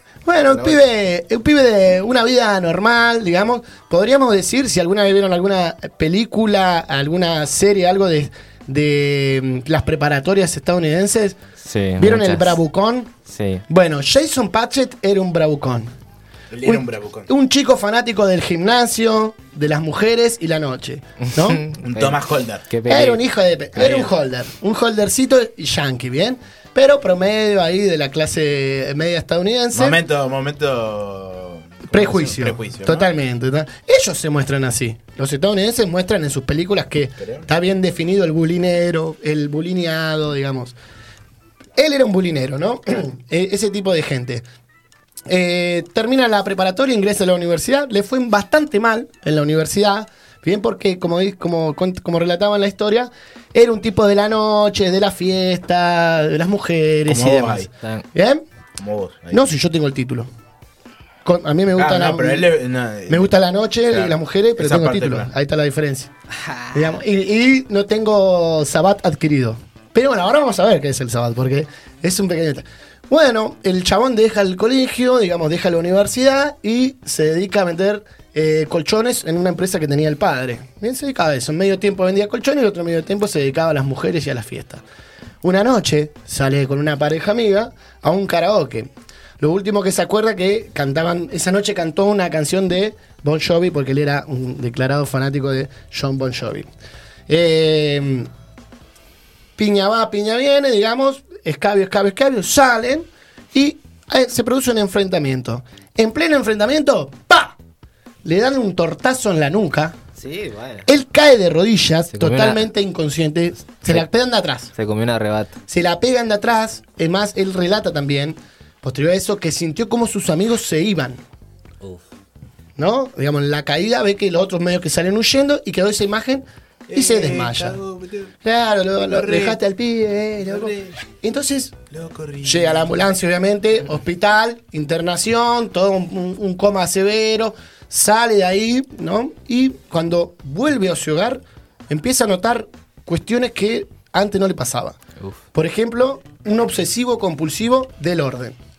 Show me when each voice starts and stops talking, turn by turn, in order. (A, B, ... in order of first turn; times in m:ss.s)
0:00.3-0:11.4 A
0:00.5-0:00.8 B
0:11.6-0:12.6 C
0:12.0-0:13.1 A
0:13.3-0:13.6 C
0:13.7-0:15.9 A
0:16.5-0:17.3 B
0:16.6-0:21.6 A
0:21.2-0:23.2 C
0:21.8-0:22.7 B
0:22.9-0:30.0 A
0:23.8-0:24.1 B
0:29.7-0:33.1 B
0:31.9-0:40.8 A
0:37.2-0:37.5 B
0:41.8-0:44.4 A
0:45.3-0:58.4 A
0:57.1-0:57.7 B
0:58.8-0:59.4 B
0:59.3-1:00.3 A
1:01.2-1:02.5 A
1:01.8-1:03.3 B
1:03.1-1:06.1 A
1:03.9-1:05.3 B
1:06.5-1:06.8 C
1:06.7-1:24.8 A
1:25.4-1:36.7 A
1:37.3-1:38.3 A
1:39.6-1:47.5 A
1:48.2-1:50.0 A
1:50.2-1:50.9 C
1:50.9-1:54.7 A
1:52.1-1:52.7 C
1:54.7-1:55.5 C
1:55.7-2:01.2 A
2:02.8-2:07.8 A
2:06.9-2:08.3 B
2:08.4-2:11.8 A
2:09.1-2:09.6 B
2:10.4-2:11.0 B
2:11.9-2:12.9 B
2:12.4-2:25.0 A
2:25.5-2:28.6 A